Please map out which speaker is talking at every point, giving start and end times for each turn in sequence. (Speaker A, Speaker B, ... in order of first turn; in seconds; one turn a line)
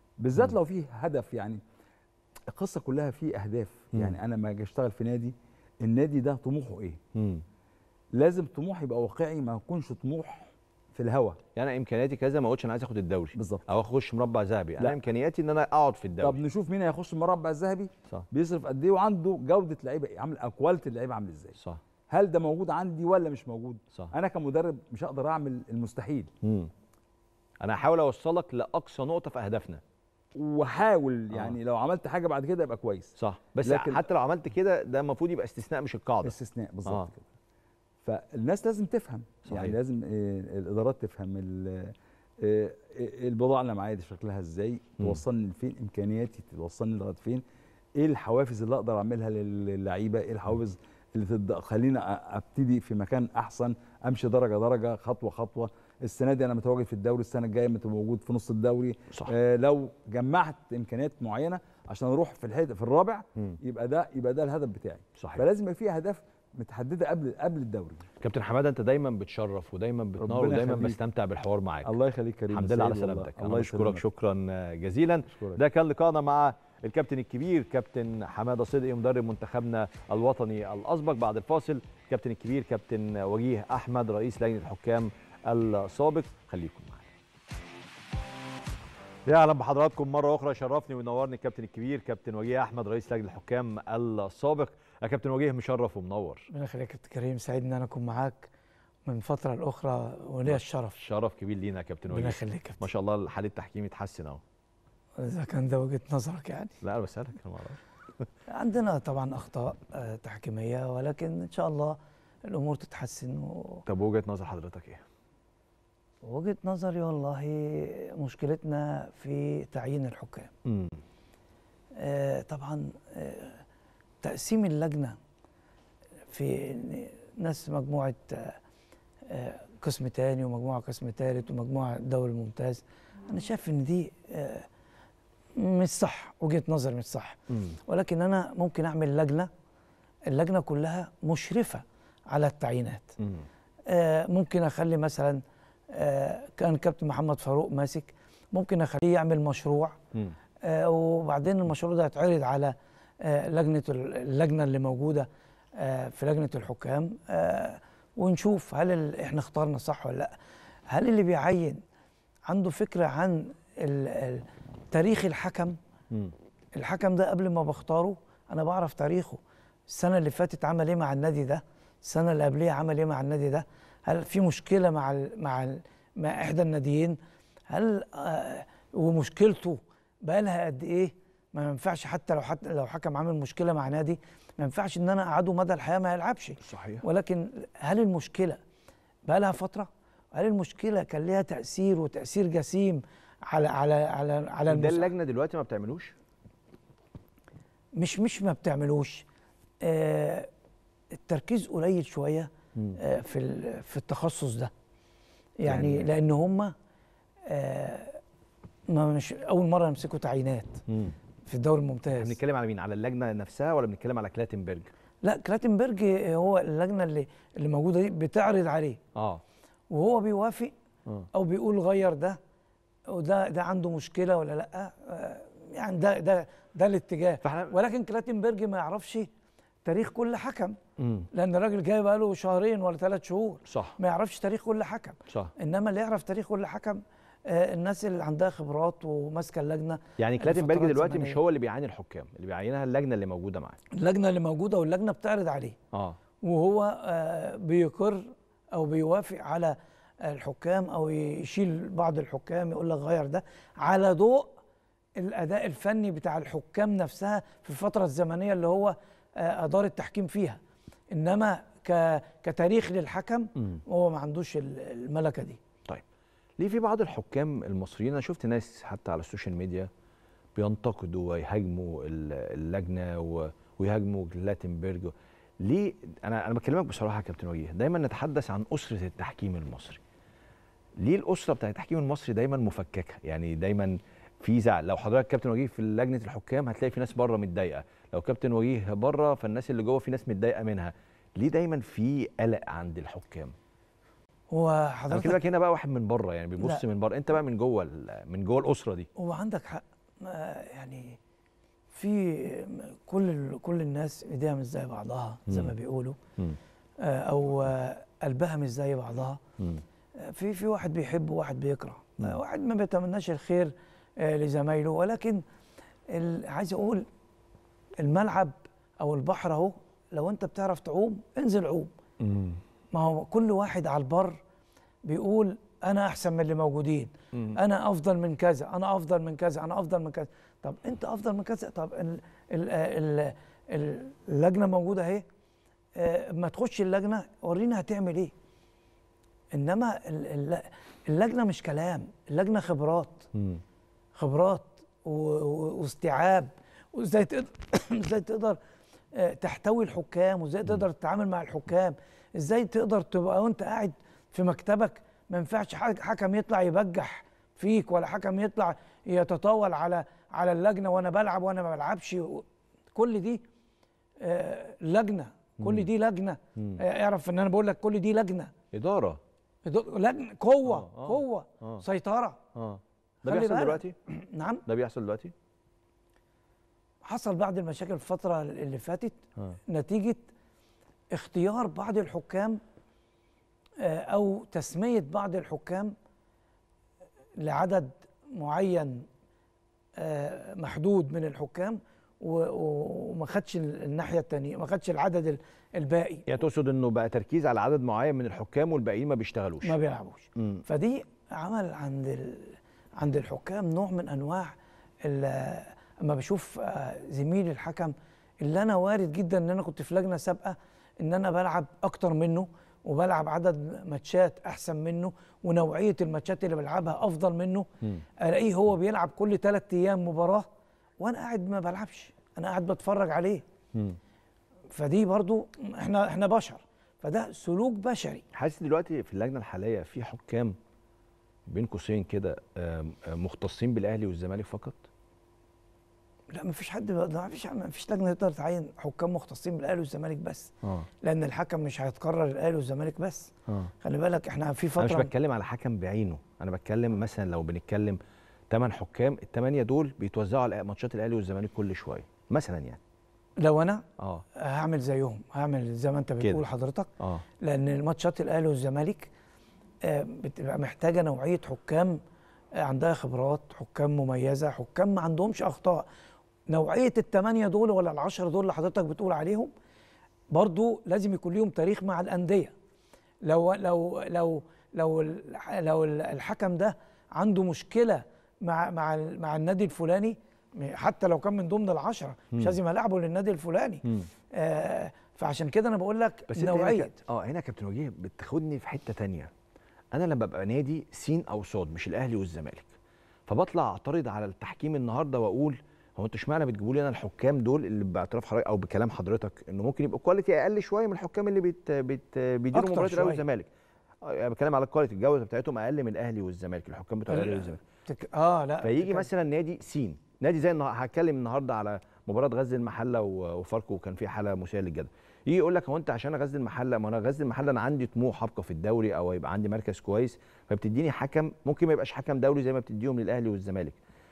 Speaker A: 0.2-1.6
Speaker A: 2.5-7.0
Speaker B: 7.1-7.4
Speaker A: 8.1-11.4
Speaker B: 11.6-16.4
Speaker A: 13.3-13.7
Speaker A: 16.2-21.5
Speaker A: 22.1-26.3
Speaker B: 26.4-26.7
Speaker B: 27.6-29.8
Speaker A: 30.3-33.1
Speaker B: 33.2-36.3
Speaker A: 33.6-34.0
Speaker A: 36.2-37.2
Speaker A: 38.0-47.4
Speaker B: 39.5-39.7
Speaker A: 48.0-68.0
Speaker B: 65.2-65.4
Speaker B: 68.2-71.9
Speaker A: 70.2-71.0
Speaker A: 71.8-74.0
Speaker B: 72.5-87.1
Speaker A: 75.3-75.6
Speaker B: 89.3-96.5
Speaker C: 96.5-98.5
Speaker C: 99.0-101.0
Speaker B: 100.5-104.4
Speaker C: 102.1-102.9
Speaker C: 105.2-106.7
Speaker B: 106.8-108.3
Speaker C: 108.5-113.8
Speaker B: 113.9-115.0
Speaker C: 116.2-120.5
Speaker B: 120.6-121.0
Speaker C: 122.0-123.6
Speaker C: 124.2-125.2
Speaker C: 126.3-128.6
Speaker C: 129.3-134.7
Speaker C: 135.6-139.5
Speaker B: 137.5-137.8
Speaker C: 140.3-143.1
Speaker B: 143.2-143.5
Speaker C: 143.9-149.9
Speaker C: 150.6-160.3
Speaker C: 160.9-161.8
Speaker C: 162.5-165.8
Speaker C: 166.7-188.6
Speaker B: 186.6-187.0
Speaker C: 189.2-195.1
Speaker B: 194.7-196.1
Speaker C: 197.9-199.2
Speaker C: 199.8-200.5
Speaker C: 201.1-204.7
Speaker C: 205.6-206.7
Speaker B: 205.6-206.1
Speaker C: 207.5-208.2
Speaker C: 208.9-210.8
Speaker B: 210.9-211.1
Speaker C: 211.4-212.3
Speaker B: 212.1-214.9
Speaker C: 215.2-219.0
Speaker B: 219.1-219.4
Speaker C: 219.9-220.7
Speaker C: 221.3-222.4
Speaker C: 223.1-229.3
Speaker B: 227.4-227.8
Speaker C: 229.8-230.8
Speaker B: 231.0-231.3
Speaker C: 231.3-241.4
Speaker B: 233.7-234.0
Speaker B: 240.2-243.8
Speaker C: 243.9-245.8
Speaker B: 245.9-246.2
Speaker C: 246.4-254.6
Speaker C: 255.2-260.6
Speaker C: 261.1-265.6
Speaker B: 266.6-269.9
Speaker B: 270.6-280.0
Speaker B: 281.0-293.5
Speaker C: 294.5-295.4
Speaker B: 295.1-299.1
Speaker C: 299.2-301.2
Speaker C: 301.9-306.2
Speaker B: 305.5-305.7
Speaker C: 307.0-309.4
Speaker C: 310.2-315.4
Speaker C: 316.1-317.1
Speaker C: 318.0-321.9
Speaker B: 322.2-322.6
Speaker C: 322.9-324.4
Speaker C: 325.0-335.2
Speaker B: 327.3-327.6
Speaker C: 335.9-338.3
Speaker C: 339.5-343.2
Speaker B: 343.3-343.6
Speaker C: 344.1-348.6
Speaker C: 349.1-363.4
Speaker C: 364.2-368.5
Speaker B: 365.6-365.9
Speaker B: 366.6-366.8
Speaker B: 368.7-369.2
Speaker C: 369.6-372.4
Speaker B: 370.6-371.8
Speaker B: 372.5-373.9
Speaker C: 373.2-374.6
Speaker B: 374.6-375.3
Speaker C: 377.0-380.3
Speaker C: 381.1-382.6
Speaker C: 383.8-385.9
Speaker C: 387.4-389.1
Speaker C: 390.0-396.2
Speaker B: 396.3-399.8
Speaker C: 399.6-417.7
Speaker B: 400.4-400.6
Speaker C: 418.2-420.5
Speaker C: 421.0-423.4
Speaker C: 424.7-428.2
Speaker B: 428.3-430.6
Speaker B: 431.5-434.9
Speaker C: 436.3-440.5
Speaker C: 441.0-443.3
Speaker C: 443.8-445.1
Speaker B: 444.8-452.8
Speaker C: 453.4-453.8
Speaker B: 454.0-454.2
Speaker C: 454.4-456.9
Speaker C: 457.4-459.1
Speaker C: 459.8-462.0
Speaker C: 462.6-465.9
Speaker C: 466.5-469.5
Speaker C: 470.3-472.5
Speaker C: 473.2-486.9
Speaker B: 486.3-489.3
Speaker B: 489.9-492.7
Speaker B: 493.3-503.5
Speaker C: 502.5-503.2
Speaker B: 504.0-507.6
Speaker C: 507.1-509.1
Speaker B: 508.6-523.8